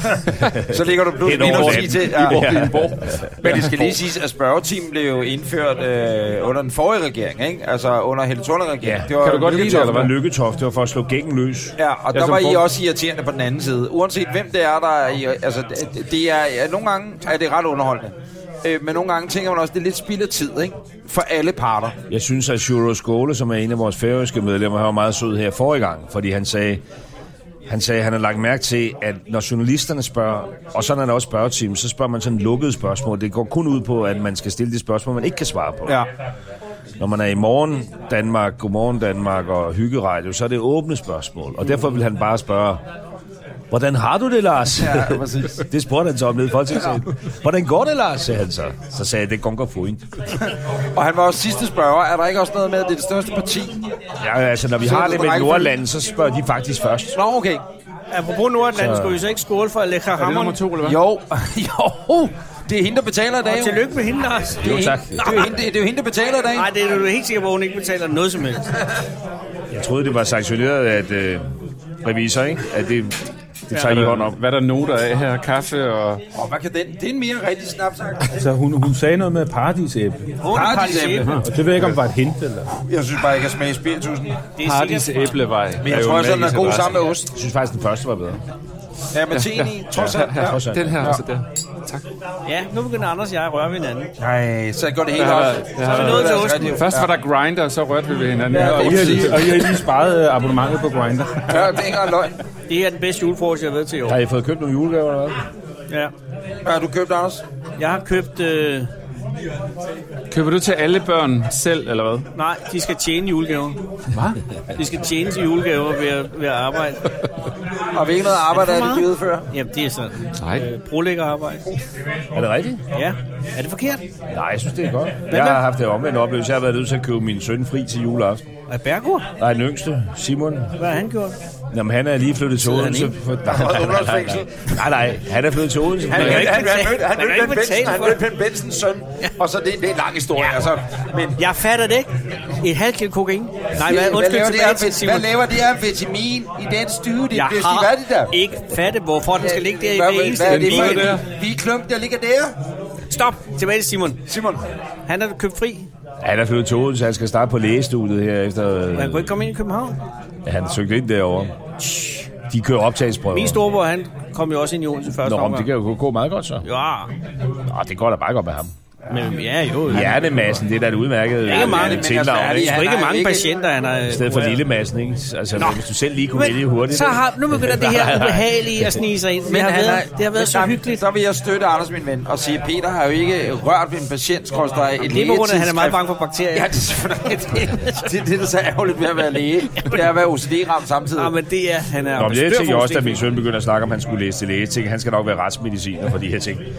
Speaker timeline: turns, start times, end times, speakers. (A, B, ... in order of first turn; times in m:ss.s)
0:00.4-0:03.3 A
0:00.7-0:02.6 B
0:01.4-0:03.9 C
0:03.4-0:10.0 B
0:08.8-0:11.8 A
0:09.2-0:10.1 C
0:11.8-0:22.0 B
0:12.1-0:12.6 C
0:22.1-0:26.8 A
0:27.7-0:36.0 A
0:37.0-0:42.8 A
0:43.7-0:50.0 A
0:44.8-0:45.6 B
0:50.9-0:53.8 B
0:54.2-0:57.2 A
0:54.8-0:55.7 B
0:57.1-0:57.6 B
0:58.1-1:00.6 D
0:58.7-0:59.2 A
1:00.2-1:01.0 C
1:00.8-1:03.8 B
1:03.5-1:05.5 D
1:04.6-1:05.5 A
1:04.6-1:06.7 B
1:06.5-1:08.7 D
1:09.7-1:11.4 A
1:12.0-1:13.2 A
1:13.7-1:14.4 A
1:13.7-1:16.2 C
1:16.3-1:18.3 B
1:18.3-1:20.4 E
1:20.4-1:21.3 D
1:20.5-1:21.4 B
1:21.2-1:22.0 C
1:21.4-1:22.7 E
1:22.9-1:24.4 B
1:24.6-1:25.4 D
1:24.6-1:27.0 C
1:25.8-1:27.3 B
1:27.3-1:28.4 A
1:29.1-1:31.2 B
1:29.3-1:32.0 C
1:30.0-1:31.1 A
1:32.4-1:34.1 D
1:34.2-1:37.1 B
1:35.1-1:39.6 C
1:35.8-1:36.8 D
1:38.5-1:39.6 B
1:38.5-1:41.8 E
1:41.5-1:42.3 B
1:42.7-1:44.2 D
1:44.1-1:45.4 A
1:46.6-1:47.4 B
1:47.8-1:48.9 D
1:50.3-1:52.2 C
1:52.3-1:53.8 D
1:54.1-1:54.4 C
1:54.8-1:57.0 D
1:57.9-1:59.5 B
1:58.5-2:01.6 D
2:00.4-2:00.6 C
2:02.3-2:02.8 A
2:02.9-2:04.0 D
2:04.3-2:08.4 A
2:05.3-2:05.6 D
2:08.7-2:09.3 D
2:09.4-2:10.7 A
2:10.8-2:11.4 D
2:11.7-2:16.5 A
2:12.6-2:13.1 D
2:13.4-2:14.7 B
2:16.1-2:18.2 D
2:16.1-2:21.4 B
2:21.4-2:25.3 D
2:23.8-2:28.3 B
2:27.3-2:31.2 D
2:29.4-2:32.6 B
2:30.4-2:31.2 C
2:33.1-2:34.2 D
2:34.3-2:34.6 B
2:35.1-2:35.8 D
2:36.2-2:39.3 A
2:38.9-2:40.0 D
2:40.4-2:41.5 A
2:41.8-2:42.2 D
2:42.5-2:43.6 A
2:43.3-2:45.7 D
2:45.2-2:46.6 A
2:46.6-2:47.1 D
2:47.7-2:48.7 A
2:49.1-2:50.6 D
2:49.8-2:52.7 A
2:51.4-2:54.6 D
2:51.5-2:53.5 B
2:54.1-2:59.0 A
2:55.6-3:01.0 D
2:59.4-3:06.0 B
3:05.0-3:06.7 D
3:06.5-3:11.3 B
3:07.4-3:08.1 D
3:11.2-3:13.2 D
3:12.2-3:16.7 A